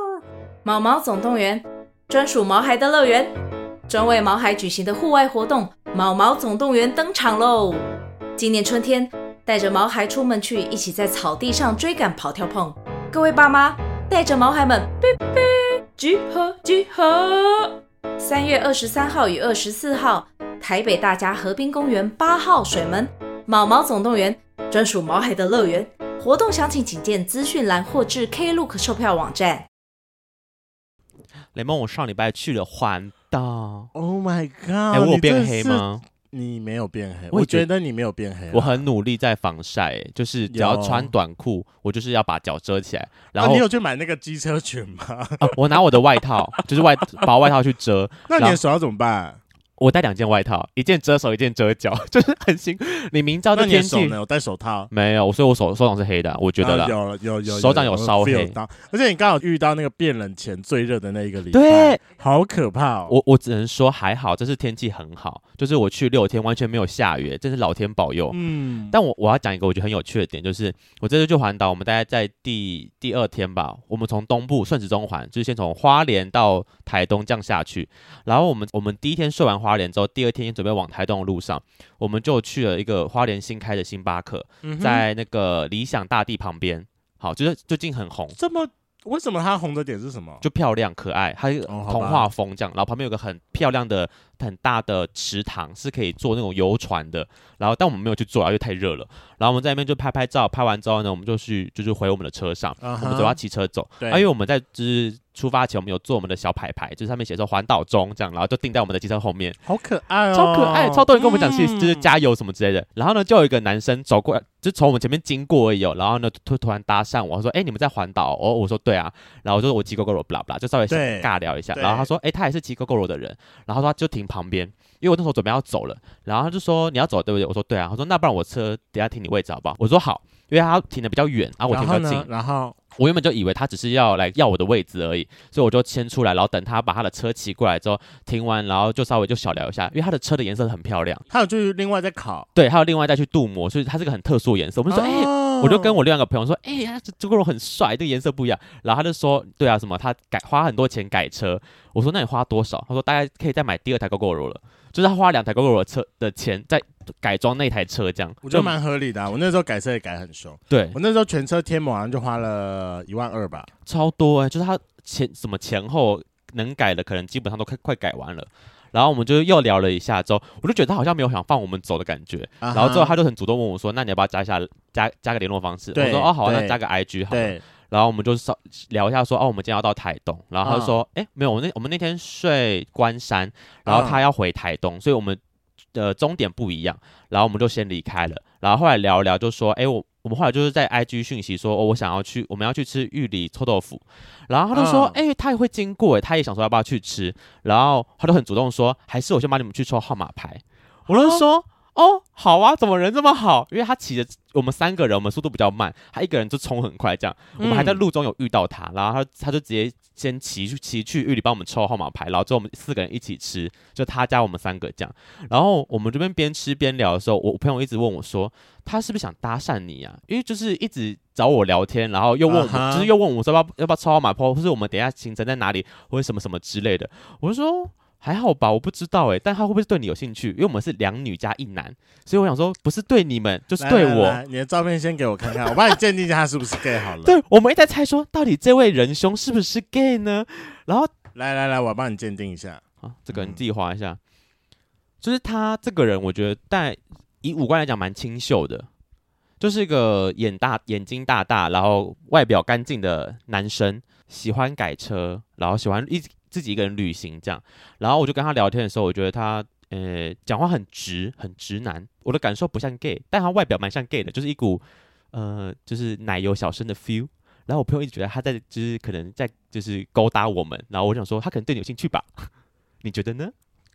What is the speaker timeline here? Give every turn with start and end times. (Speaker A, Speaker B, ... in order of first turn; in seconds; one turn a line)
Speaker A: 0.7-3.3
Speaker A: 3.9-7.9
Speaker A: 8.4-29.7
Speaker B: 31.5-33.9
Speaker C: 33.9-38.9
Speaker B: 34.9-36.0
Speaker B: 37.3-37.7
Speaker B: 38.5-43.6
Speaker C: 40.5-41.1
Speaker C: 43.4-45.5
Speaker B: 45.4-48.6
Speaker C: 48.3-49.4
Speaker B: 49.8-54.2
Speaker C: 53.5-54.9
Speaker B: 54.9-58.6
Speaker C: 56.6-63.2
Speaker B: 61.5-62.0
Speaker B: 63.1-68.4
Speaker C: 68.3-69.0
Speaker B: 68.9-88.4
Speaker C: 84.6-85.0
Speaker C: 88.4-90.4
Speaker B: 90.4-109.6
Speaker C: 91.7-92.3
Speaker C: 102.8-103.4
Speaker C: 104.0-104.3
Speaker C: 109.7-112.1
Speaker B: 110.3-132.3
Speaker C: 120.9-122.1
Speaker C: 131.7-132.8
Speaker B: 133.0-141.2
Speaker C: 141.3-142.5
Speaker B: 142.6-158.8
Speaker C: 144.9-146.0
Speaker C: 158.4-163.7
Speaker B: 160.7-161.0
Speaker B: 163.9-185.4
Speaker C: 172.6-173.2
Speaker C: 175.9-176.8
Speaker C: 177.3-177.6
Speaker C: 180.6-180.9
Speaker C: 183.9-184.2
Speaker B: 185.9-234.4
Speaker C: 194.7-195.2
Speaker C: 201.1-201.4
Speaker C: 207.6-208.0
Speaker C: 222.5-223.1
Speaker C: 233.8-237.4
Speaker B: 237.2-241.1
Speaker C: 241.3-243.6
Speaker B: 243.0-244.2
Speaker B: 245.2-248.9
Speaker B: 249.6-272.5
Speaker B: 273.0-273.5